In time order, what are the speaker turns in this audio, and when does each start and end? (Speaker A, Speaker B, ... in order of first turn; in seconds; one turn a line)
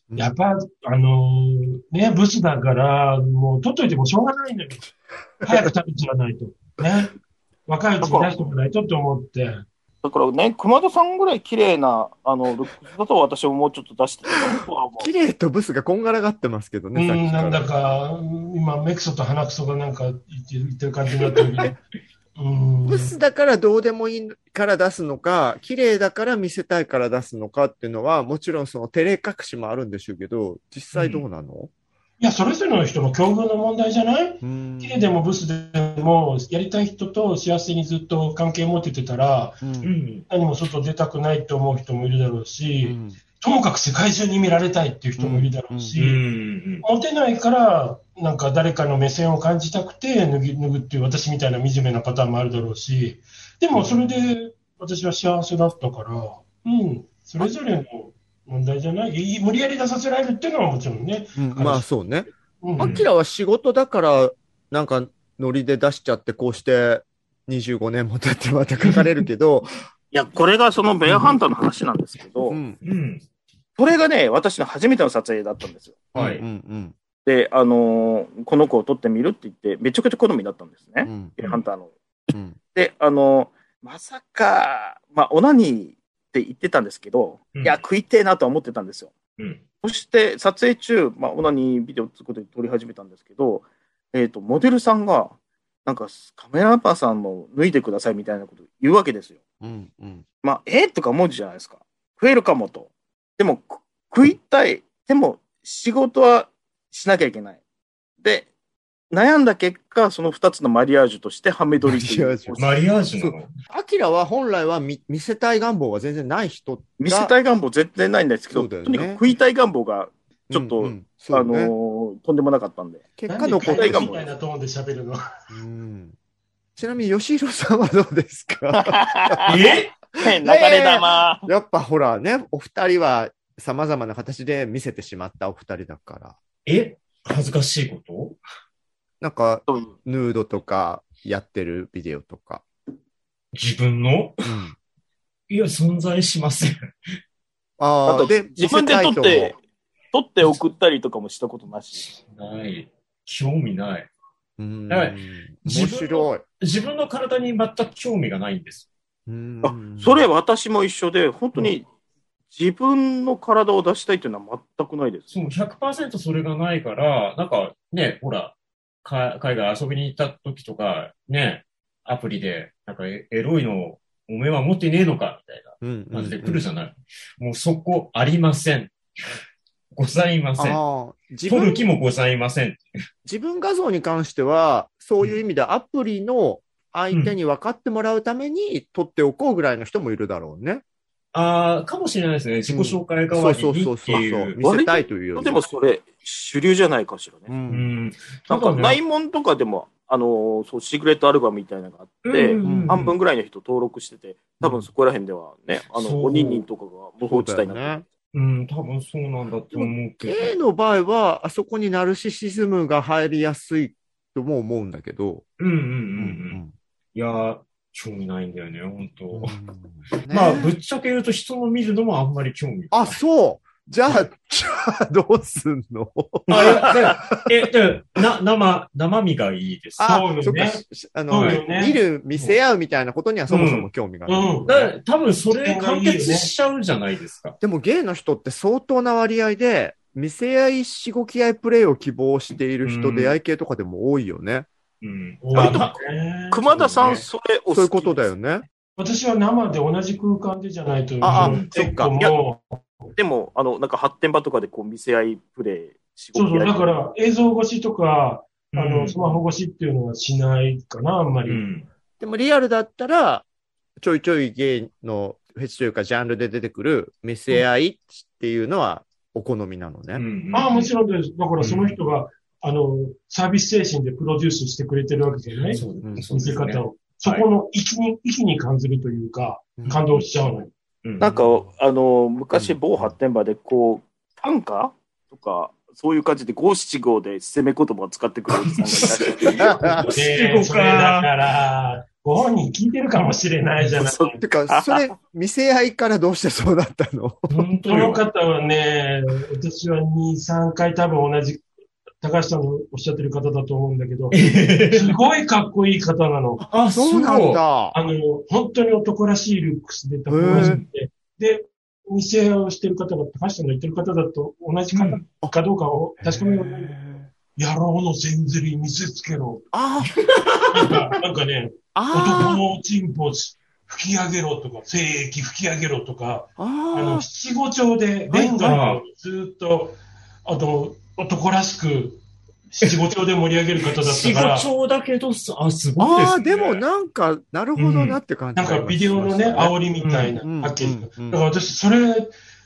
Speaker A: 0.1-0.4
Speaker B: 0.2-4.9
Speaker A: 5.4-5.7
Speaker B: 5.4-7.2
Speaker B: 7.7-9.6
Speaker C: 8.0-8.5
Speaker C: 10.0-15.1
Speaker A: 15.0-17.6
Speaker B: 16.9-21.8
Speaker B: 22.4-23.1
Speaker A: 22.9-31.7
Speaker D: 30.9-31.2
Speaker B: 32.2-39.6
Speaker A: 34.4-35.1
Speaker A: 39.6-39.9
Speaker D: 39.8-40.3
Speaker B: 40.3-46.2
Speaker A: 42.8-43.2
Speaker A: 45.2-45.9
Speaker D: 45.9-46.8
Speaker B: 46.8-61.9
Speaker A: 53.7-54.1
Speaker A: 61.4-69.7
Speaker B: 62.6-63.0
Speaker D: 62.8-63.1
Speaker C: 70.1-72.6
Speaker A: 71.0-71.3
Speaker A: 72.5-72.8
Speaker D: 72.8-73.2
Speaker C: 73.8-76.0
Speaker A: 76.1-76.9
Speaker D: 76.1-76.4
Speaker C: 77.2-81.9
Speaker A: 81.0-81.4
Speaker C: 82.7-89.1
Speaker C: 89.8-99.4
Speaker A: 99.6-100.2
Speaker C: 100.4-107.6
Speaker C: 108.2-108.5
Speaker C: 109.1-112.8
Speaker A: 111.9-117.3
Speaker D: 112.6-113.5
Speaker C: 117.0-123.1
Speaker A: 118.5-119.2
Speaker A: 120.5-121.7
Speaker A: 123.2-124.1
Speaker B: 123.3-125.2
Speaker C: 123.6-124.3
Speaker A: 125.5-126.1
Speaker A: 126.8-136.4
Speaker C: 128.7-129.6
Speaker D: 129.4-129.9
Speaker C: 130.2-131.5
Speaker D: 136.7-138.4
Speaker A: 139.2-142.6
Speaker D: 143.5-144.4
Speaker A: 144.4-144.8
Speaker D: 145.5-146.7
Speaker A: 147.8-149.5
Speaker C: 148.1-149.6
Speaker C: 150.1-152.1
Speaker D: 152.0-154.1
Speaker A: 154.6-156.4
Speaker D: 154.9-158.9
Speaker A: 159.3-160.2
Speaker C: 159.6-161.8
Speaker C: 162.5-165.3
Speaker D: 165.3-178.9
Speaker A: 175.8-176.6
Speaker D: 179.9-180.8
Speaker A: 180.6-181.8
Speaker D: 181.5-182.8
Speaker A: 183.2-190.8
Speaker D: 191.3-194.6
Speaker A: 192.7-195.6
Speaker C: 194.6-197.6
Speaker A: 197.5-197.9
Speaker D: 197.7-199.0
Speaker C: 198.5-208.0
Speaker D: 202.2-203.1
Speaker A: 202.6-203.1
Speaker D: 205.9-206.6
Speaker A: 207.2-208.0
Speaker D: 208.3-210.6
Speaker A: 209.7-215.4
Speaker D: 215.6-216.6
Speaker A: 216.2-216.7
Speaker D: 217.1-219.6
Speaker A: 219.3-220.8
Speaker D: 220.3-223.2
Speaker A: 222.9-227.5
Speaker D: 226.5-230.1
Speaker A: 230.0-234.9
Speaker B: 230.0-232.0
Speaker D: 233.5-233.9
Speaker B: 234.2-234.7
Speaker D: 234.7-237.5
Speaker B: 235.5-236.5
Speaker A: 237.6-244.7
Speaker D: 242.8-243.4
Speaker D: 245.0-246.0
Speaker B: 245.4-246.6
Speaker C: 246.5-248.3
Speaker D: 246.7-247.2
Speaker A: 247.7-248.7
Speaker B: 249.0-252.8
Speaker A: 251.2-252.3
Speaker D: 251.3-251.7
Speaker C: 253.2-256.9
Speaker B: 256.3-261.6
Speaker D: 258.7-259.4
Speaker D: 261.5-261.9
Speaker A: 262.2-263.4
Speaker A: 264.0-270.2
Speaker D: 270.1-270.9
Speaker B: 270.5-275.8
Speaker D: 271.6-272.0
Speaker D: 275.7-277.4
Speaker B: 276.3-280.7
Speaker C: 281.2-289.7
Speaker A: 282.5-283.1
Speaker D: 288.5-291.3
Speaker A: 289.4-290.2
Speaker B: 290.1-294.4
Speaker C: 294.0-295.1
Speaker A: 294.4-297.6
Speaker D: 297.5-298.2
Speaker B: 297.9-306.6
Speaker D: 304.3-305.2
Speaker A: 306.6-307.9
Speaker D: 306.6-307.6
Speaker B: 307.9-316.9
Speaker A: 310.3-310.8
Speaker D: 310.5-310.8
Speaker D: 314.9-315.2
Speaker A: 316.2-317.3
Speaker B: 317.5-319.6
Speaker A: 319.7-320.3
Speaker D: 320.2-321.0
Speaker B: 320.7-334.7
Speaker A: 321.9-322.6
Speaker A: 326.6-327.2
Speaker D: 328.3-329.0
Speaker D: 334.0-336.8
Speaker A: 336.0-339.8
Speaker D: 337.8-338.2
Speaker B: 338.6-342.3
Speaker D: 340.0-340.4
Speaker A: 340.4-341.4